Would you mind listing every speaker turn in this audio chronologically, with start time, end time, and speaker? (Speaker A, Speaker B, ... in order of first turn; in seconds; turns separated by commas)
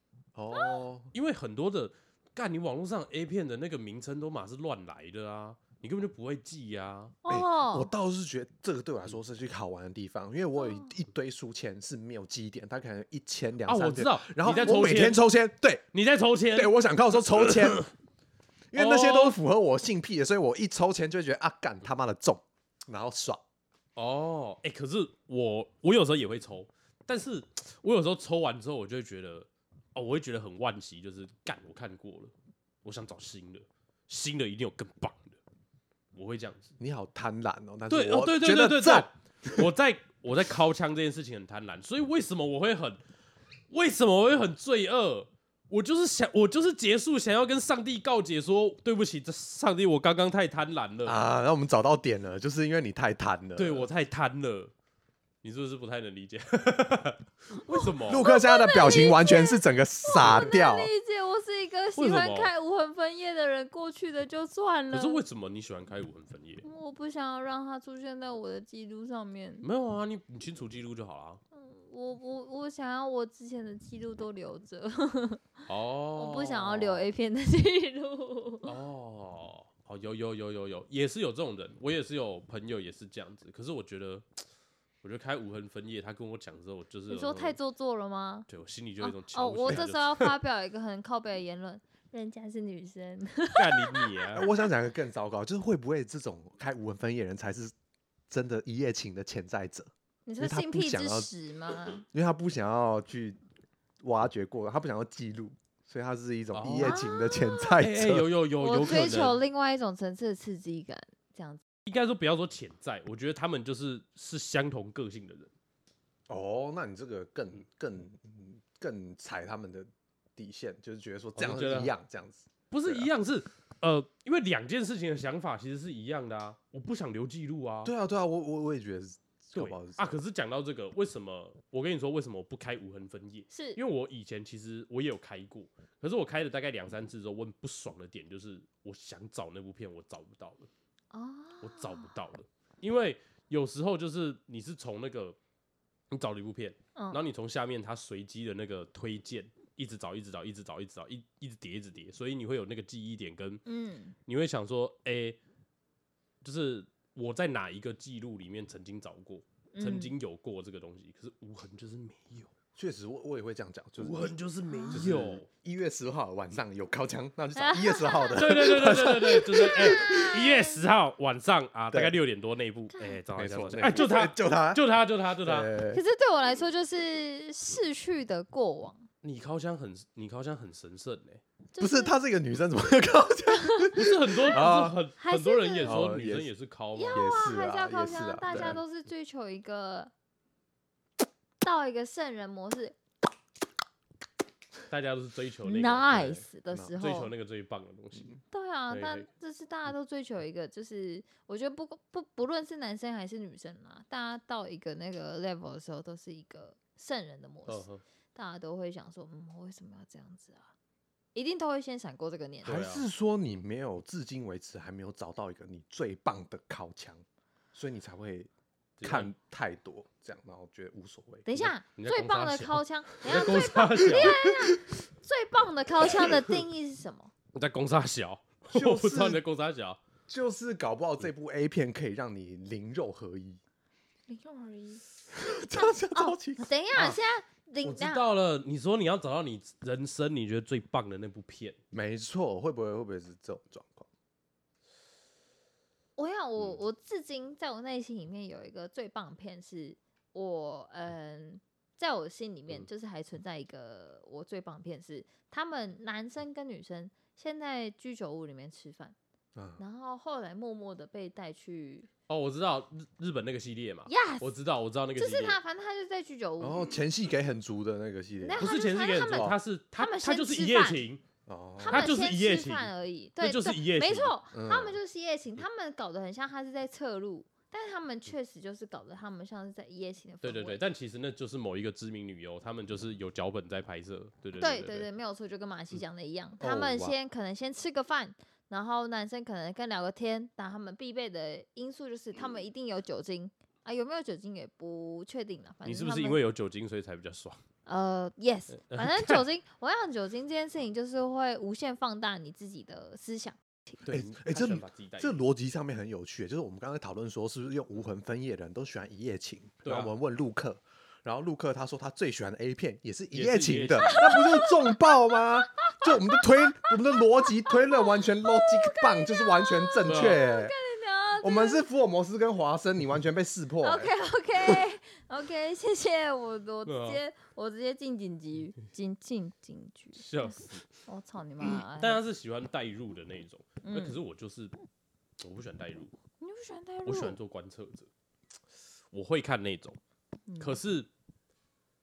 Speaker A: 0.3-1.1, Speaker B: 0.5-0.8, Speaker C: 1.1-7.2, Speaker B: 7.2-7.9, Speaker A: 7.3-15.8, Speaker B: 10.6-10.9, Speaker C: 13.7-15.3, Speaker C: 15.9-16.8, Speaker A: 16.5-17.9, Speaker C: 17.3-17.9, Speaker A: 18.7-23.4, Speaker C: 18.7-19.4, Speaker C: 24.0-32.3, Speaker C: 32.8-35.4, Speaker C: 36.1-36.7, Speaker A: 36.8-39.7, Speaker C: 37.9-43.0, Speaker C: 43.7-51.2, Speaker A: 51.0-53.9, Speaker C: 53.6-54.7, Speaker C: 55.4-58.3, Speaker B: 57.6-65.2, Speaker A: 58.0-60.9, Speaker C: 62.0-62.5, Speaker C: 64.9-66.7, Speaker B: 66.6-69.7, Speaker C: 69.6-71.4, Speaker B: 71.5-75.5, Speaker C: 75.7-77.1, Speaker B: 76.2-78.7, Speaker C: 78.6-84.3, Speaker C: 85.0-87.6, Speaker B: 87.1-88.5, Speaker C: 88.5-90.4, Speaker B: 89.0-94.3, Speaker C: 93.5-94.5, Speaker A: 94.3-97.7, Speaker A: 98.3-101.3, Speaker B: 100.3-102.1, Speaker A: 102.1-103.4, Speaker A: 104.0-108.3, Speaker C: 106.5-107.0, Speaker B: 106.8-107.8, Speaker C: 107.8-109.4, Speaker B: 108.6-111.6, Speaker C: 111.9-115.5, Speaker A: 116.3-123.1, Speaker C: 121.4-121.9, Speaker C: 122.7-127.9, Speaker A: 127.8-130.0, Speaker C: 129.6-140.7, Speaker B: 133.5-133.8, Speaker B: 141.1-142.1, Speaker C: 141.6-145.4, Speaker C: 146.1-153.6, Speaker B: 147.0-147.2, Speaker B: 153.7-154.2, Speaker C: 154.3-155.4, Speaker C: 156.4-162.5, Speaker B: 159.7-160.1, Speaker A: 162.8-164.4, Speaker C: 164.0-165.5, Speaker B: 164.7-165.0, Speaker A: 164.9-170.2, Speaker B: 167.6-170.8, Speaker C: 168.3-175.7, Speaker B: 172.9-173.2, Speaker A: 173.4-174.8, Speaker A: 175.4-176.0, Speaker B: 175.9-179.1, Speaker C: 179.2-181.4, Speaker B: 181.7-182.2, Speaker A: 181.8-185.0, Speaker B: 183.6-184.0, Speaker C: 183.9-187.3, Speaker B: 185.2-186.0, Speaker A: 185.8-186.5, Speaker B: 186.9-190.1, Speaker A: 187.1-188.8, Speaker C: 188.5-188.8, Speaker B: 191.6-193.0, Speaker C: 194.9-196.5, Speaker B: 195.6-197.3, Speaker C: 197.0-199.3, Speaker B: 198.5-210.7, Speaker C: 207.7-208.0, Speaker B: 211.3-212.8, Speaker A: 212.6-218.5, Speaker C: 212.7-213.1, Speaker C: 219.0-219.3, Speaker A: 219.0-221.5, Speaker B: 221.5-227.3, Speaker C: 221.7-224.5, Speaker C: 227.5-230.0, Speaker A: 228.7-229.4, Speaker A: 230.3-233.6, Speaker B: 234.3-235.0, Speaker A: 235.3-236.7, Speaker B: 235.7-238.2, Speaker C: 237.8-241.8, Speaker A: 241.9-244.1, Speaker B: 246.2-259.2, Speaker A: 259.6-259.8, Speaker B: 259.8-262.1, Speaker C: 262.3-265.6, Speaker B: 264.1-264.5, Speaker B: 265.2-266.9, Speaker A: 266.6-268.7, Speaker B: 268.4-271.0, Speaker C: 268.6-271.2, Speaker A: 269.3-269.6, Speaker A: 271.5-272.1, Speaker B: 271.8-280.8, Speaker C: 271.9-274.3, Speaker A: 274.5-275.0, Speaker C: 280.4-285.1, Speaker B: 284.6-296.4, Speaker A: 286.6-287.1, Speaker C: 295.9-297.6, Speaker B: 297.9-303.6, Speaker C: 298.8-299.5, Speaker C: 304.1-305.4, Speaker A: 304.1-320.7, Speaker C: 309.9-310.1, Speaker C: 313.3-314.4, Speaker B: 314.1-316.9, Speaker B: 317.6-321.9, Speaker C: 320.1-320.4, Speaker A: 321.4-324.1, Speaker B: 323.8-332.2, Speaker C: 326.9-327.2, Speaker C: 330.1-330.9, Speaker C: 331.6-334.7, Speaker B: 333.8-334.2, Speaker C: 335.4-336.1, Speaker B: 336.4-337.4, Speaker C: 337.1-338.1, Speaker C: 339.1-340.0, Speaker B: 340.5-340.8, Speaker C: 340.6-341.1